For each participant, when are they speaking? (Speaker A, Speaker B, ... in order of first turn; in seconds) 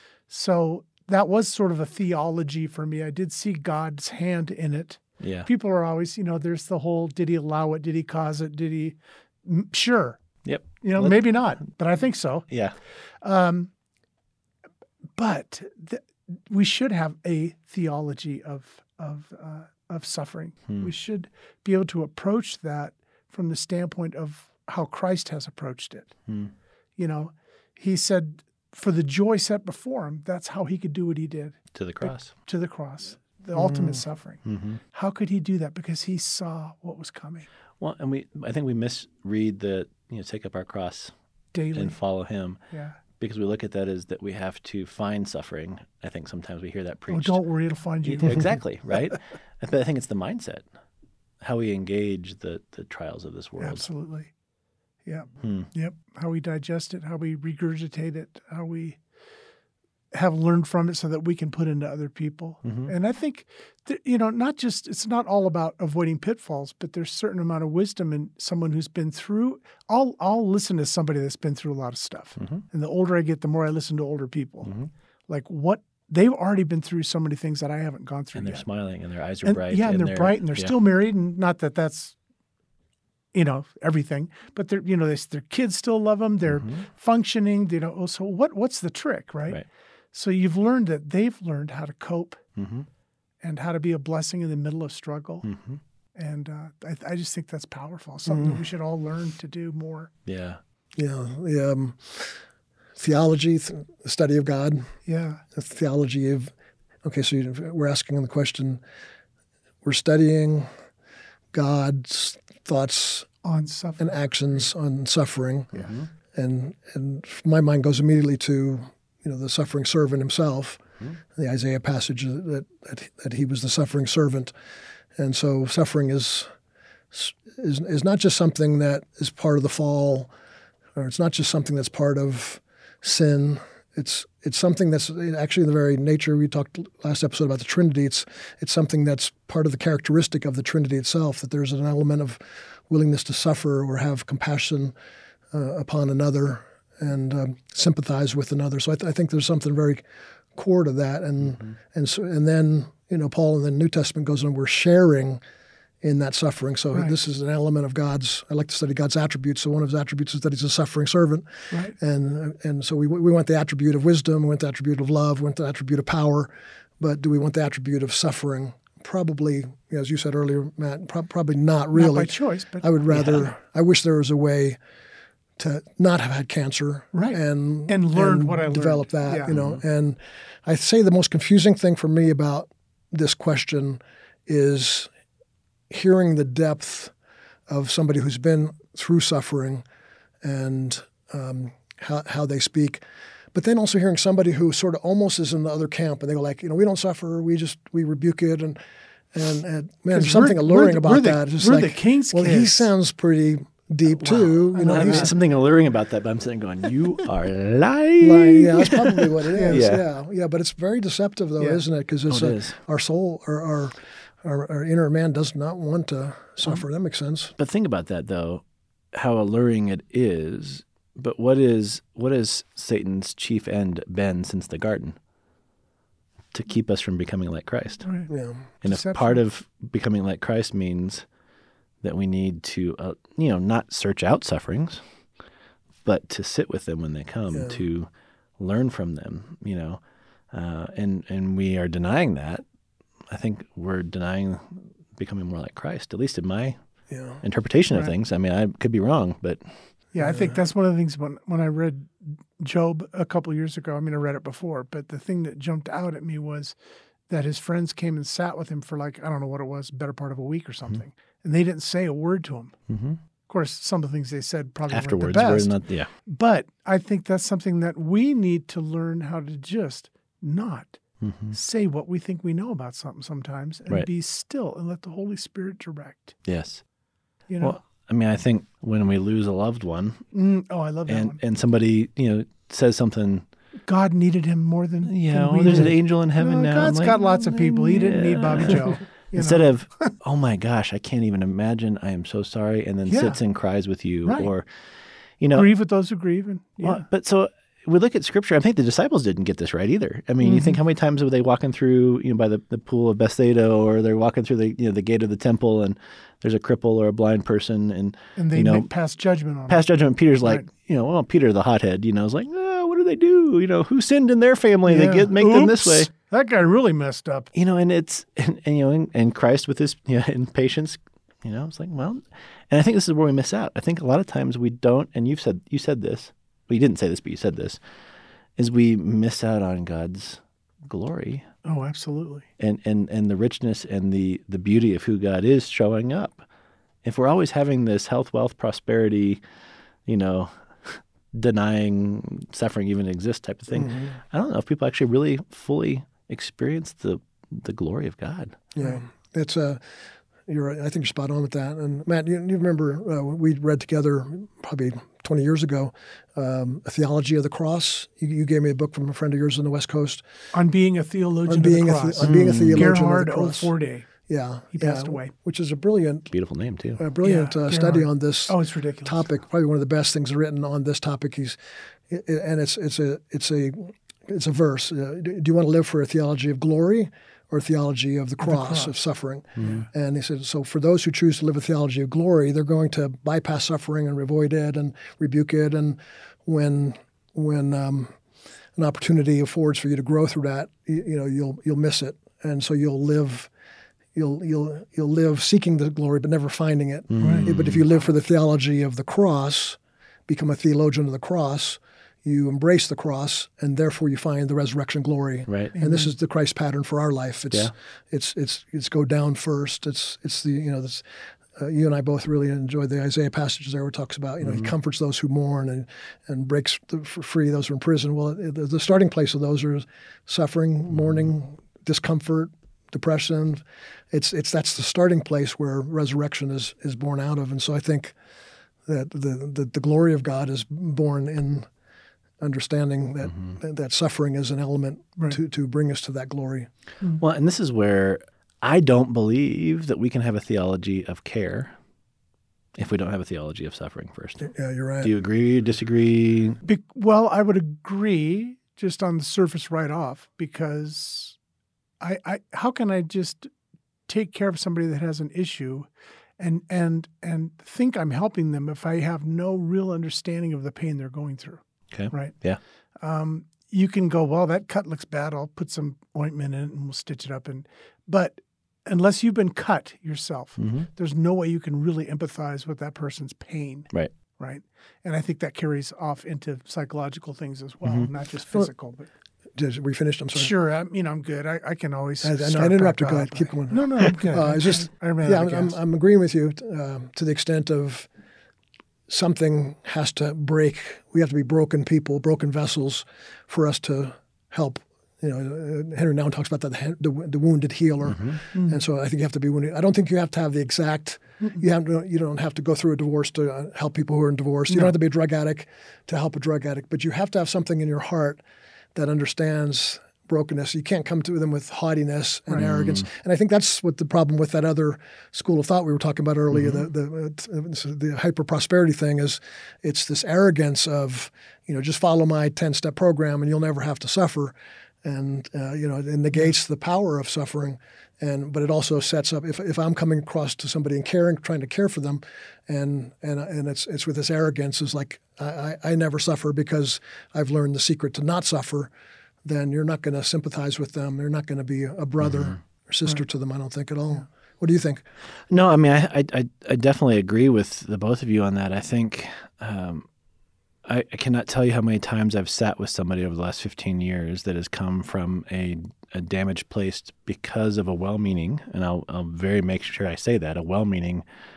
Speaker A: 0.3-10.2, 10.8-13.7, 15.2-26.1, 27.0-37.5, 41.5-42.0, 42.7-43.0, 47.1-48.6, 53.6-54.3, 55.1-59.0, 60.1-74.7, 75.3-78.6, 79.5-82.2, 83.3-92.4, 93.4-95.5, 96.2-100.1, 105.0-105.4, 113.4-114.2, 171.9-173.4, 177.1-179.6, 200.1-202.9, 204.7-205.4, 209.6-209.9, 228.0-228.3, 228.8-229.4, 250.1-256.8, 257.3-262.8, 263.5-271.0, 271.5-276.4, 277.5-277.8, 280.3-281.4, 283.9-290.1, 293.1-293.4, 294.2-294.5, 295.5-297.1, 300.4-300.8, 308.4-309.9, 314.9-317.5, 331.6-332.5, 360.5-364.1, 364.7-365.3, 367.2-369.3, 378.4-378.9, 379.6-379.9, 397.2-397.5, 405.7-406.1, 446.6-451.4, 452.0-453.5, 454.1-462.4, 463.0-479.1, 480.3-485.8, 498.5-498.8
Speaker B: 5.2-5.5, 10.4-11.5, 12.5-12.8, 26.3-26.5, 31.7-32.3, 34.4-34.8, 37.8-41.1, 41.7-42.6, 43.2-47.4, 48.0-50.6, 51.4-53.9, 55.4-55.7, 62.6-62.9, 72.4-72.7, 74.6-74.9, 78.3-80.7, 86.5-86.8, 92.6-92.9, 95.4-95.8, 100.3-100.6, 115.7-116.1, 151.4-151.7, 173.1-173.4, 179.5-179.8, 204.8-210.0, 212.3-212.8, 217.6-218.6, 219.1-225.2, 226.5-228.1, 228.8-231.2, 232.0-235.0, 236.1-240.0, 240.5-242.6, 243.3-246.8, 247.4-249.8, 262.9-263.2, 264.9-266.1, 271.2-271.6, 276.5-276.8, 277.6-280.2, 281.1-283.5, 285.1-294.7, 295.4-295.7, 296.8-308.9, 309.7-316.1, 317.5-327.8, 328.6-331.5, 332.6-336.4, 337.0-339.4, 340.1-348.6, 362.2-362.9, 366.3-367.0, 379.6-379.9, 397.1-397.8, 405.5-405.7, 414.4-414.7, 437.2-441.8, 442.8-444.5, 445.0-446.6, 461.9-462.6, 470.6-470.9, 498.1-498.4, 512.6-513.1, 516.5-516.8, 542.2-542.5, 545.5-550.1, 550.9-561.2
Speaker C: 33.5-34.0, 98.3-98.6, 101.0-102.4, 103.0-104.9, 105.5-108.8, 109.8-110.7, 111.5-113.3, 114.0-124.5, 125.2-126.5, 127.1-130.3, 130.9-144.9, 145.5-155.4, 156.0-174.8, 175.6-185.1, 185.9-187.1, 187.7-189.8, 190.4-193.0, 193.5-198.8, 199.3-205.3, 208.2-217.6, 228.3-228.7, 237.5-237.8, 247.1-247.4, 250.2-250.5, 343.7-344.2, 348.8-360.2, 361.5-363.7, 364.3-366.3, 367.0-388.2, 388.8-393.5, 394.1-428.2, 428.9-431.7, 432.4-436.7, 444.4-445.1, 479.6-480.5, 482.2-488.1, 489.1-508.4, 508.9-538.9, 539.4-545.0